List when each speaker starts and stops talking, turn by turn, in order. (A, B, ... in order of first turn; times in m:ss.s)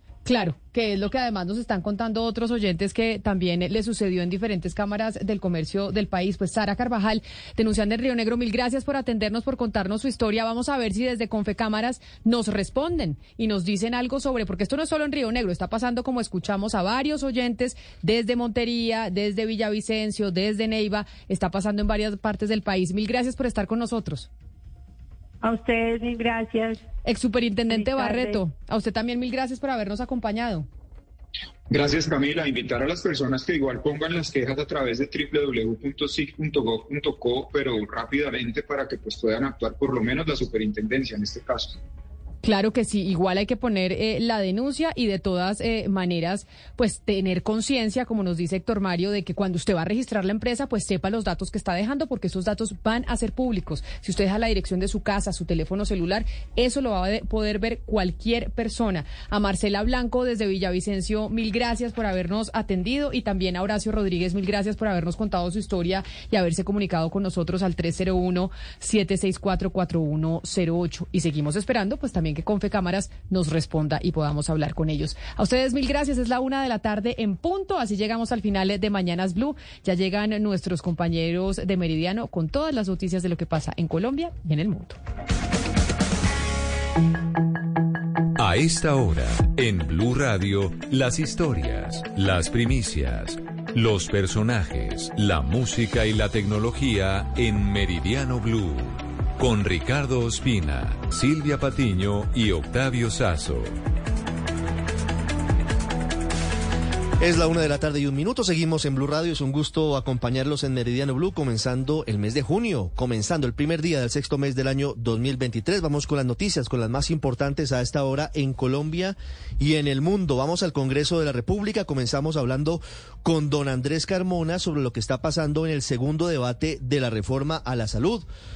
0:00.2-0:24.3 A
0:25.4-0:26.8 B
0:27.0-0:30.7 A
0:27.7-0:28.4 B
0:31.7-0:41.8 C
0:42.4-1:25.0 A
1:28.4-1:43.8 D
1:47.2-2:08.3 E